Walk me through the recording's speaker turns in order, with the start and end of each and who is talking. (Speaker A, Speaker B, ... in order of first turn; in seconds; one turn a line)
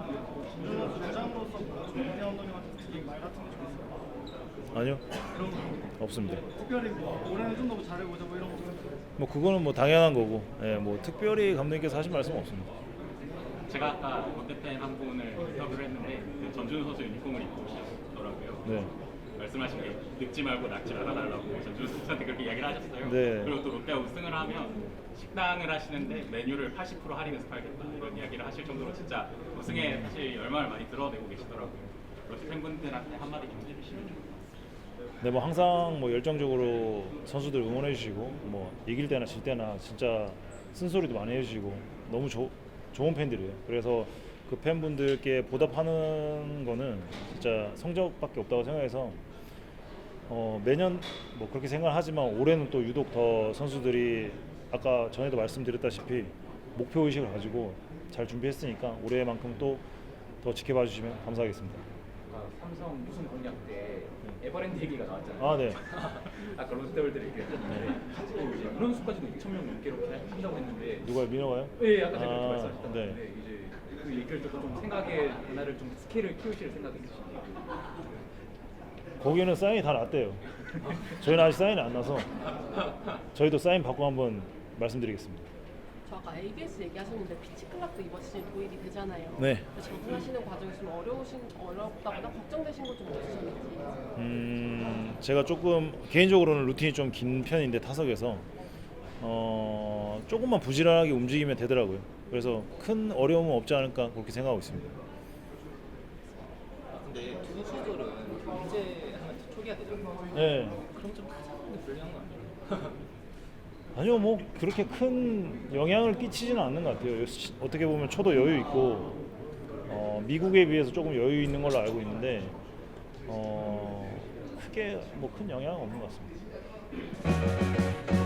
Speaker A: 0.6-4.0
Speaker B: 4.7-5.0
Speaker A: 5.3-5.8
Speaker B: 6.0-6.4
Speaker A: 6.5-8.8
Speaker B: 9.2-12.7
Speaker C: 13.7-18.8
Speaker B: 18.6-18.9
Speaker C: 19.4-34.5
Speaker B: 23.0-23.6
Speaker B: 29.7-30.1
Speaker B: 35.2-49.2
Speaker B: 50.3-59.8
Speaker B: 60.4-61.8
Speaker D: 62.3-71.1
Speaker B: 65.4-65.8
Speaker B: 71.0-73.2
Speaker D: 71.8-77.5
Speaker B: 79.2-80.4
Speaker B: 81.1-82.3
Speaker B: 83.3-85.5
Speaker E: 86.1-93.9
Speaker B: 89.4-89.7
Speaker B: 94.2-98.5
Speaker B: 99.2-104.9
Speaker F: 106.9-113.0
Speaker B: 110.3-110.8
Speaker B: 113.9-119.1
Speaker B: 119.9-122.6
Speaker B: 123.3-126.3